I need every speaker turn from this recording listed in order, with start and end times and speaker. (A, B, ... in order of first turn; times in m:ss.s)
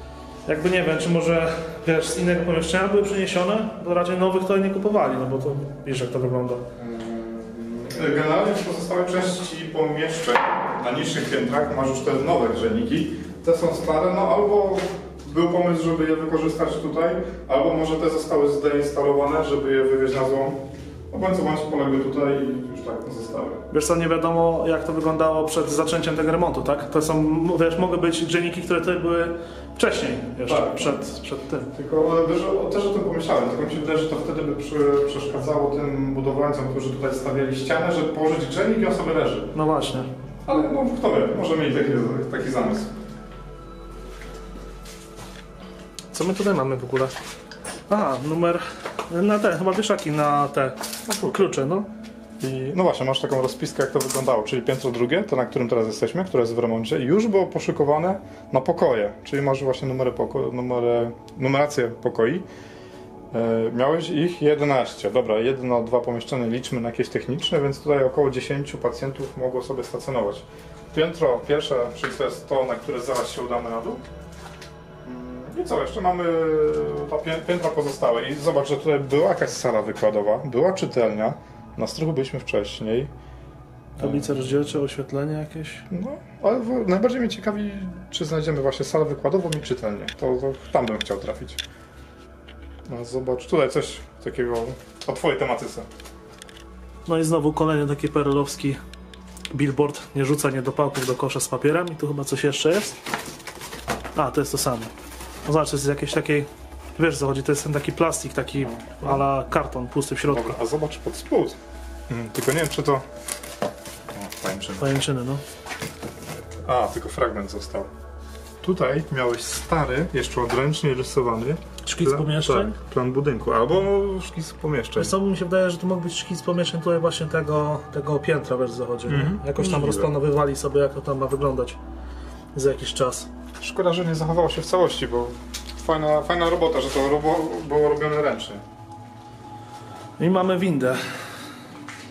0:00.5-0:06.7 A
0:06.8-0:23.6 B
0:23.7-0:31.7 A
0:30.4-0:31.0 B
0:31.7-0:39.5 B
0:39.5-0:40.1 A
0:40.5-0:42.9 B
0:46.1-0:47.2 A
0:47.9-0:51.9 A
0:51.0-0:51.5 B
0:52.4-1:02.5 B
1:03.3-1:14.0 B
1:15.0-1:23.1 B
1:24.0-1:24.5 B
1:24.0-1:25.9 A
1:25.9-1:31.6 B
1:32.9-1:35.9 B
1:37.1-1:38.8 A
1:39.5-1:43.0 A
1:44.2-1:44.9 A
1:45.4-1:50.6 A
1:48.6-1:49.2 B
1:50.3-1:53.1 B
1:54.1-1:54.9 B
1:54.8-1:55.4 A
1:56.6-1:57.9 B
1:58.6-2:05.2 B
2:01.8-2:02.8 A
2:05.0-2:11.8 A
2:09.1-2:10.1 B
2:12.6-2:13.3 A
2:13.6-2:18.6 B
2:20.2-2:21.4 A